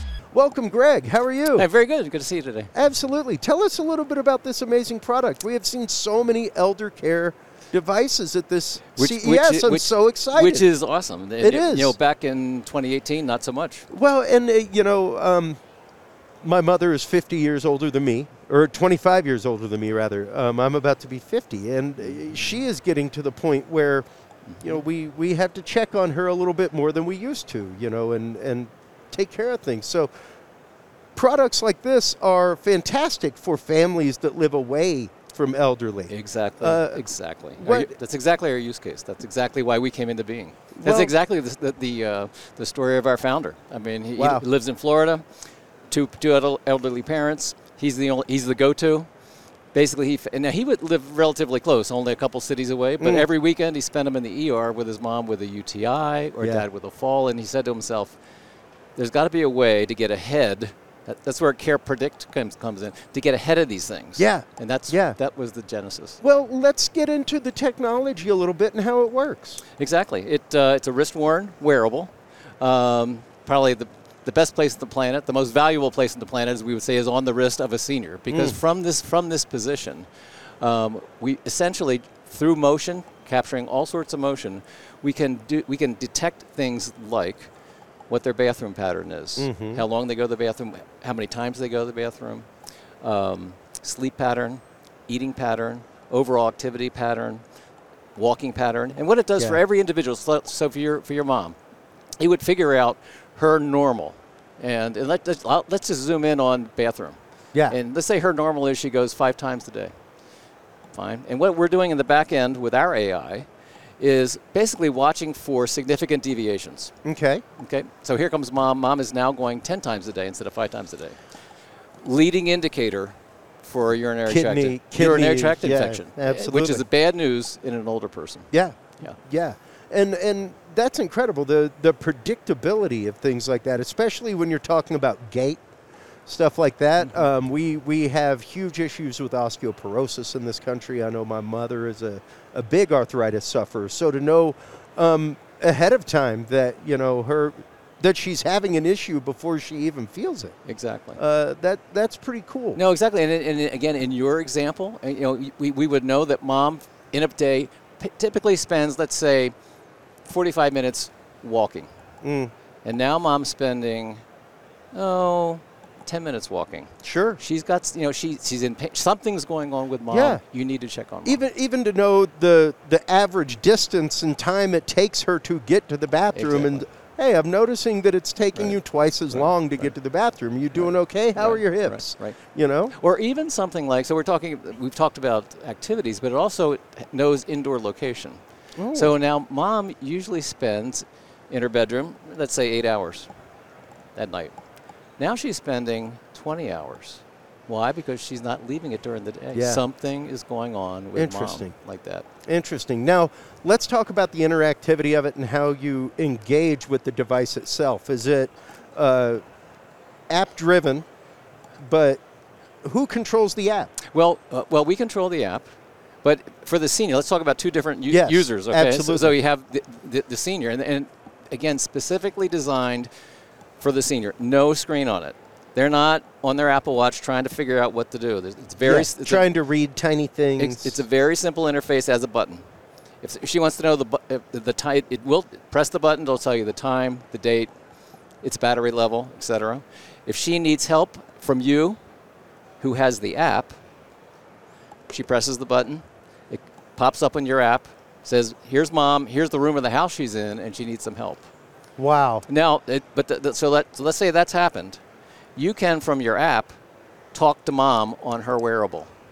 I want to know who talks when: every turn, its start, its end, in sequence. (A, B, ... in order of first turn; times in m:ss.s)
0:00.3-0:01.7 A
0:01.5-0:02.7 B
0:02.7-0:10.7 A
0:09.0-0:13.8 B
0:11.4-0:11.9 A
0:13.9-0:15.6 A
0:16.4-0:24.0 A
0:24.4-0:24.8 B
0:24.6-0:30.1 A
0:31.1-0:37.0 A
0:36.1-0:45.2 B
0:37.6-0:37.9 A
0:40.7-0:41.1 A
0:44.2-0:44.4 A
0:45.9-0:49.1 B
0:49.7-0:58.2 B
0:53.0-0:53.3 A
0:59.0-1:06.2 B
1:04.2-1:05.2 A
1:06.2-1:09.6 A
1:09.8-1:20.1 B
1:18.3-1:18.6 A
1:20.6-1:27.5 B
1:28.1-1:32.4 B
1:29.4-1:29.8 A
1:33.0-1:37.4 B
1:38.2-1:41.6 B
1:42.2-1:47.2 B
1:47.7-1:49.9 B
1:50.9-1:53.5 B
1:54.0-1:56.9 B
1:57.0-1:57.4 A
1:57.6-2:01.2 B
2:02.0-2:09.2 B
2:04.2-2:06.8 A
2:08.5-2:15.6 A
2:16.3-2:30.5 A
2:30.6-2:31.2 B
2:31.2-2:32.8 A
2:32.7-2:39.5 B
2:40.2-2:41.9 B
2:42.2-2:42.5 A
2:42.8-2:44.2 B
2:44.9-2:51.4 B
2:47.0-2:47.4 A
2:50.1-2:50.4 A
2:51.2-3:02.9 A
2:56.3-2:56.8 B
2:58.5-2:59.9 B
3:00.7-3:02.4 B
3:02.9-3:08.4 B
3:08.8-3:09.1 A
3:08.9-3:13.3 B
3:14.2-3:14.5 B
3:15.2-3:22.2 B
3:19.5-3:19.8 A
3:21.1-3:21.7 A
3:22.4-3:29.4 A
3:30.3-3:31.0 A
3:31.8-3:32.2 A
3:32.8-3:33.9 A
3:34.1-3:35.7 B
3:36.2-3:43.1 B
3:38.1-3:39.3 A
3:43.8-3:49.5 B
3:48.8-3:51.0 A
3:50.6-3:52.6 B
3:53.2-3:57.7 B
3:58.4-4:02.0 B
4:02.8-4:03.7 B
4:05.1-4:11.5 B
4:12.0-4:12.4 A
4:12.5-4:15.0 B
4:15.6-4:16.7 B
4:17.3-4:19.1 B